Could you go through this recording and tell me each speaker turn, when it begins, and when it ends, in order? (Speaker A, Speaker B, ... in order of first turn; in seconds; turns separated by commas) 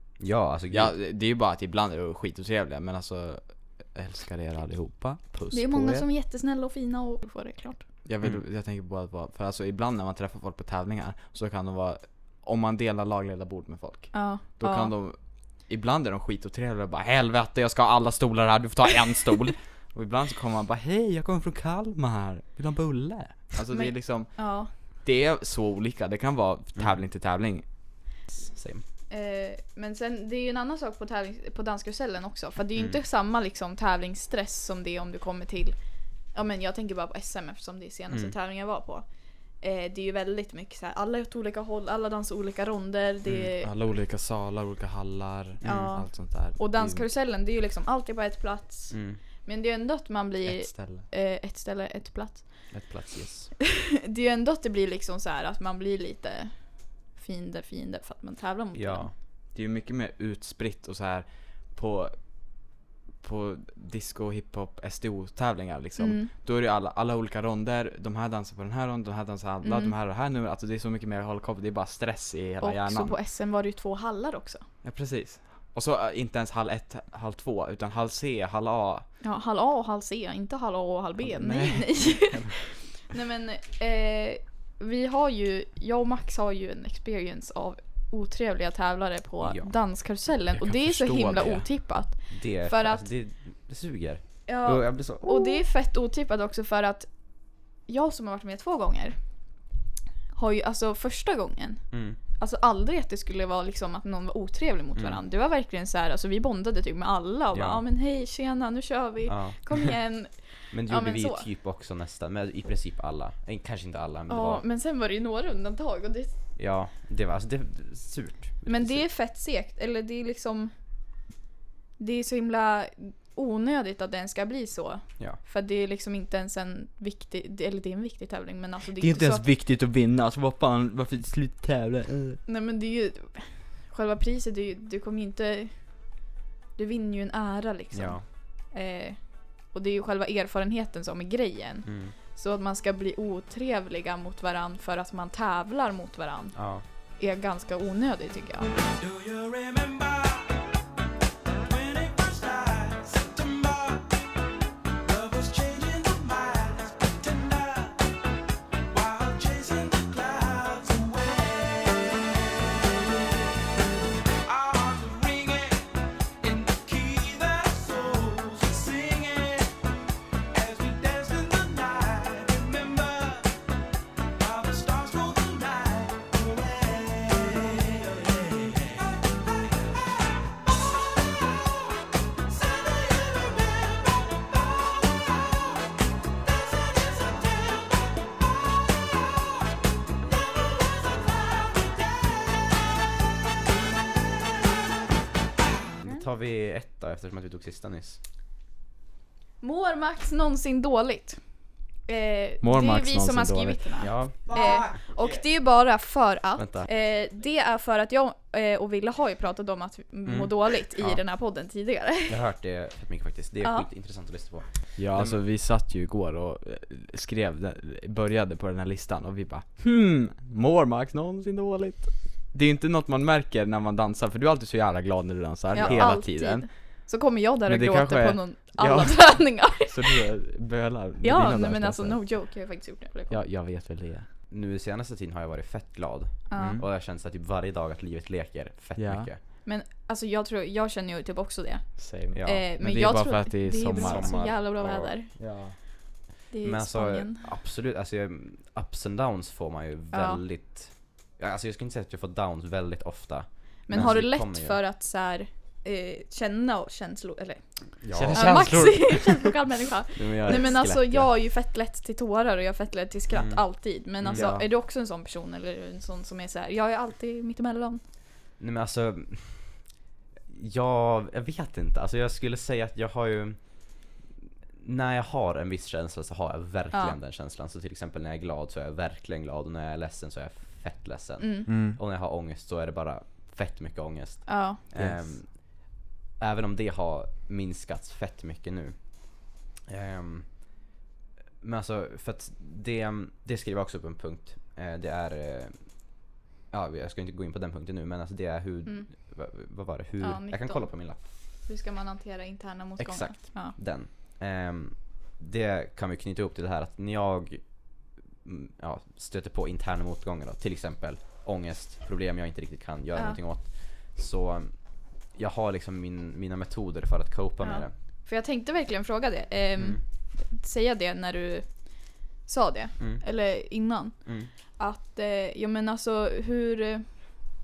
Speaker A: 0.2-1.0, Speaker B: 0.4-6.1, Speaker C: 5.5-7.8, Speaker B: 8.1-24.3, Speaker C: 14.1-14.9, Speaker C: 23.7-24.7, Speaker B: 25.0-27.6, Speaker A: 28.4-28.8, Speaker C: 29.1-35.8, Speaker C: 36.3-43.7, Speaker B: 43.6-47.1, Speaker A: 45.6-46.0, Speaker C: 45.6-52.7, Speaker A: 48.9-49.2, Speaker B: 50.4-51.1, Speaker A: 52.7-53.5, Speaker C: 53.9-59.1, Speaker A: 58.7-59.1, Speaker B: 59.5-62.2, Speaker B: 63.2-73.1, Speaker C: 66.0-66.3, Speaker C: 69.6-69.9, Speaker C: 72.6-74.6, Speaker B: 74.8-79.1, Speaker C: 79.2-93.0, Speaker B: 81.2-82.5, Speaker A: 89.4-89.7, Speaker B: 90.6-91.7, Speaker A: 92.3-95.6, Speaker C: 94.5-99.2, Speaker C: 100.3-111.5, Speaker A: 101.9-102.2, Speaker A: 107.5-107.8, Speaker A: 109.3-109.6, Speaker A: 110.7-114.6, Speaker C: 114.3-116.3, Speaker A: 116.6-119.0, Speaker C: 118.7-120.7, Speaker C: 122.0-129.5, Speaker B: 129.0-132.4, Speaker C: 132.5-136.1, Speaker C: 136.8-148.7, Speaker A: 137.9-138.2, Speaker A: 141.8-142.2, Speaker A: 146.6-146.8, Speaker D: 149.0-150.2, Speaker D: 151.7-154.0, Speaker D: 155.1-157.9, Speaker D: 158.9-162.2, Speaker D: 164.5-165.7, Speaker D: 166.4-169.7, Speaker D: 170.6-173.4, Speaker D: 174.4-178.9, Speaker A: 196.0-198.2, Speaker C: 199.6-201.4, Speaker C: 202.1-212.4, Speaker B: 202.6-204.1, Speaker A: 204.0-204.8, Speaker A: 206.6-206.9, Speaker A: 210.3-211.2, Speaker A: 212.3-215.4, Speaker B: 215.0-226.7, Speaker C: 225.7-230.2, Speaker A: 225.8-226.1, Speaker B: 227.7-232.3, Speaker C: 231.2-233.4, Speaker B: 233.3-234.3, Speaker A: 234.5-239.4, Speaker C: 236.5-236.8, Speaker B: 236.6-236.9, Speaker B: 239.0-239.3, Speaker C: 239.6-245.3, Speaker B: 242.0-244.6, Speaker A: 242.3-242.6, Speaker A: 243.9-245.1, Speaker B: 245.4-245.8, Speaker C: 246.5-247.5, Speaker A: 246.6-254.8, Speaker C: 250.1-250.4, Speaker C: 253.9-268.0, Speaker A: 258.0-258.8, Speaker B: 258.1-259.6, Speaker A: 260.1-261.3, Speaker A: 263.3-264.6, Speaker B: 264.3-264.7, Speaker A: 268.6-269.9, Speaker A: 270.5-273.9, Speaker A: 274.8-290.8, Speaker C: 281.4-281.7, Speaker B: 281.7-282.0, Speaker C: 284.5-284.8, Speaker B: 284.9-285.2, Speaker A: 291.6-296.0, Speaker A: 296.7-301.2, Speaker C: 300.2-303.8, Speaker A: 303.0-314.8, Speaker A: 315.3-317.9, Speaker C: 317.6-324.2, Speaker A: 323.0-323.2, Speaker A: 324.2-324.5, Speaker C: 324.8-327.1